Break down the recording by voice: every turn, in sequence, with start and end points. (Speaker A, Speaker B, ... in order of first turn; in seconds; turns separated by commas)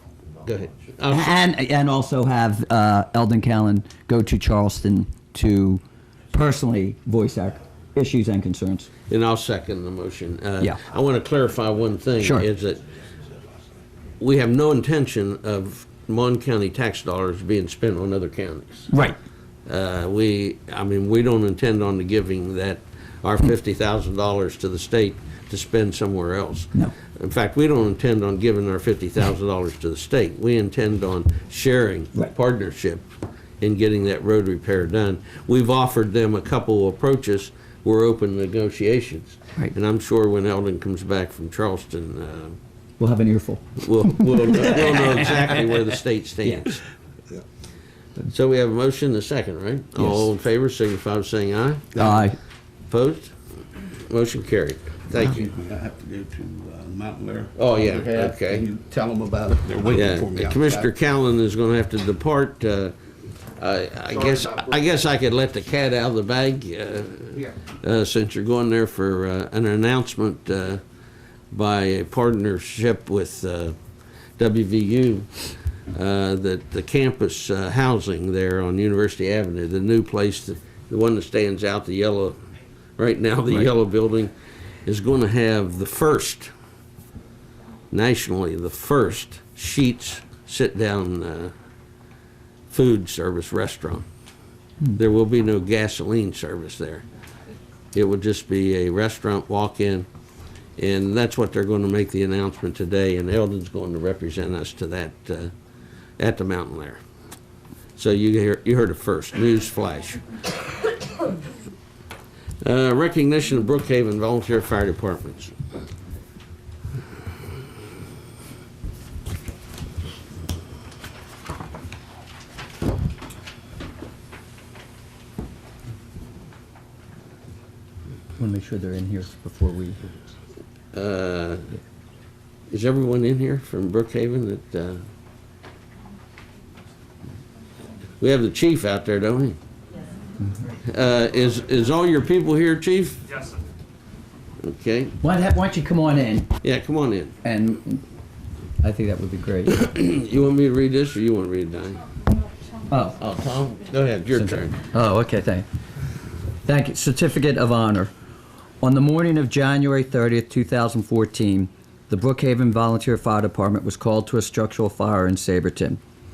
Speaker A: 0.4-1.4, Speaker B: 1.1-8.9, Speaker A: 9.1-12.8, Speaker B: 12.2-12.4, Speaker A: 14.2-18.9, Speaker B: 18.9-19.1, Speaker A: 19.7-33.0, Speaker A: 33.6-42.6, Speaker B: 43.0-45.0, Speaker A: 43.8-46.8, Speaker A: 48.3-51.9, Speaker B: 50.0-50.2, Speaker C: 51.9-52.3, Speaker B: 52.0-52.4, Speaker A: 52.9-53.3, Speaker A: 54.1-55.5, Speaker C: 55.1-60.9, Speaker A: 57.6-58.7, Speaker A: 59.9-62.9, Speaker A: 63.6-70.8, Speaker A: 71.5-73.8, Speaker A: 74.4-82.4, Speaker A: 83.0-84.3, Speaker A: 84.8-86.5, Speaker A: 87.9-91.5, Speaker A: 92.7-94.0, Speaker A: 95.0-97.0, Speaker A: 97.9-100.1, Speaker A: 100.8-105.5, Speaker A: 106.2-107.0, Speaker A: 108.0-110.2, Speaker A: 112.6-115.5, Speaker B: 128.4-130.0, Speaker A: 130.9-131.7, Speaker A: 132.7-135.0, Speaker A: 138.2-139.6, Speaker A: 140.8-143.2, Speaker A: 144.6-145.2, Speaker B: 145.2-146.5, Speaker A: 146.6-147.3, Speaker B: 147.4-148.0, Speaker B: 148.8-149.8, Speaker A: 149.7-152.0, Speaker B: 152.9-153.2, Speaker A: 153.2-154.8, Speaker B: 154.3-155.6, Speaker B: 156.6-158.1, Speaker B: 158.8-166.0